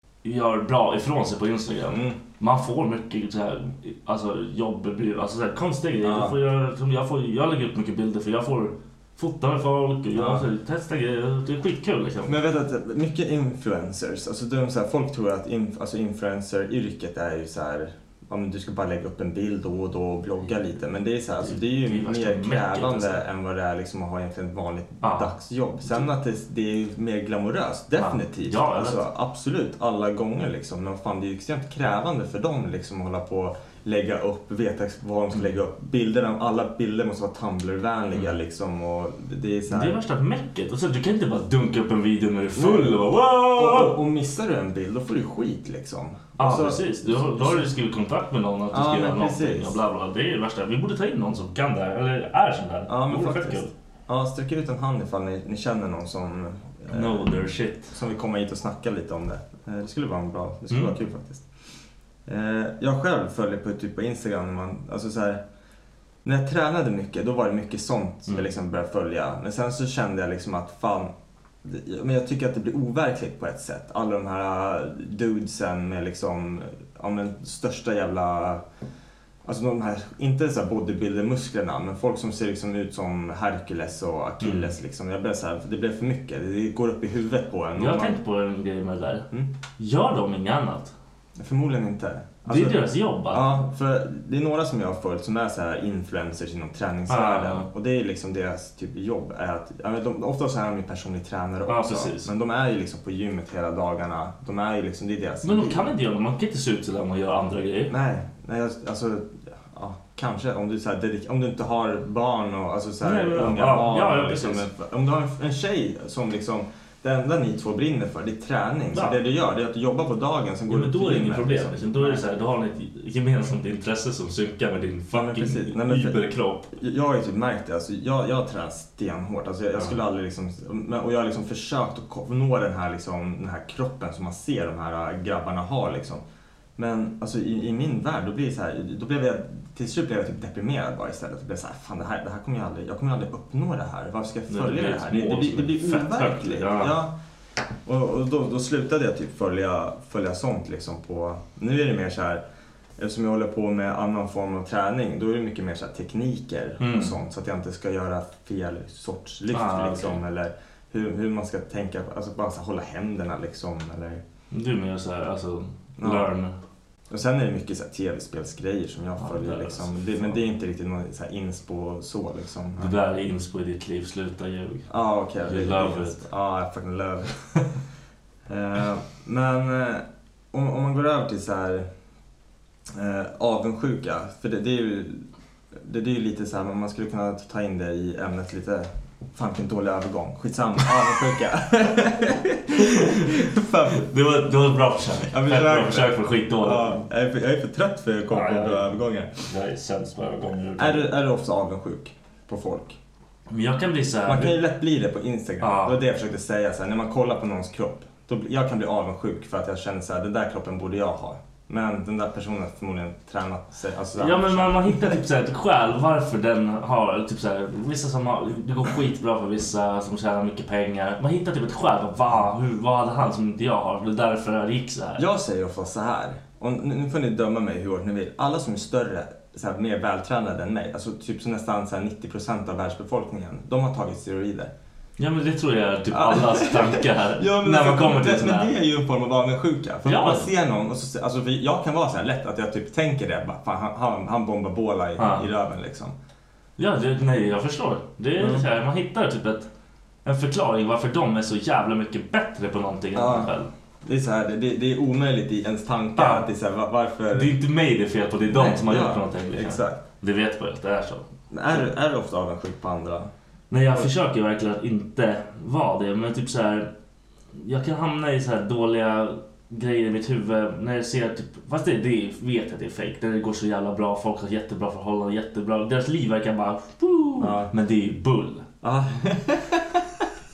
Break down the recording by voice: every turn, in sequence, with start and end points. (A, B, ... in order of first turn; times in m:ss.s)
0:00.2-0:12.4 A
0:01.9-0:02.2 B
0:06.0-0:06.4 B
0:10.2-0:10.4 B
0:12.2-0:40.0 B
0:21.4-0:23.2 A
0:25.0-0:25.3 A
0:28.0-0:29.0 A
0:39.7-0:44.0 A
0:42.6-0:47.7 B
0:46.4-0:53.7 A
0:48.7-0:49.8 B
0:52.9-0:57.4 B
0:56.9-0:58.0 A
0:57.9-1:01.5 B
1:00.7-1:01.0 A
1:02.3-1:05.4 B
1:06.2-1:11.1 B
1:11.6-1:18.6 B
1:19.4-1:28.2 B
1:24.4-1:24.7 A
1:27.8-1:30.9 A
1:31.4-1:45.9 B
1:32.5-1:33.5 A
1:37.1-1:37.7 A
1:41.7-1:42.3 A
1:45.4-1:47.9 A
1:47.9-2:02.2 B
1:53.0-1:54.7 A
2:00.7-2:06.7 A
2:05.1-2:16.2 B
2:16.8-2:27.2 B
2:24.5-2:27.0 A
2:27.9-2:32.4 B
2:33.0-2:44.2 B
2:36.8-2:37.2 A
2:39.5-2:40.2 A
2:44.5-2:46.6 A
2:46.0-2:46.3 B
2:47.1-2:52.9 B
2:49.2-2:50.4 A
2:52.8-2:54.9 A
2:54.9-2:57.4 B
2:55.4-2:56.2 A
2:58.5-3:01.9 B
3:02.9-3:14.1 B
3:12.8-3:17.0 A
3:15.3-3:19.4 B
3:18.3-3:21.1 A
3:20.8-3:23.0 B
3:23.5-3:24.6 A
3:24.3-3:35.2 B
3:25.6-3:26.0 A
3:34.2-3:45.2 A
3:45.2-3:54.7 B
3:55.2-3:58.7 A
3:56.1-4:06.2 B
4:00.0-4:00.5 A
4:05.2-4:05.5 A
4:06.8-4:09.7 A
4:08.4-4:08.7 B
4:10.2-4:13.7 A
4:13.2-4:17.6 B
4:16.2-4:16.5 A
4:17.3-4:21.8 A
4:18.5-4:20.0 B
4:21.5-4:23.3 B
4:23.7-4:26.9 A
4:27.5-4:38.7 A
4:37.4-4:37.7 B
4:38.8-4:40.1 B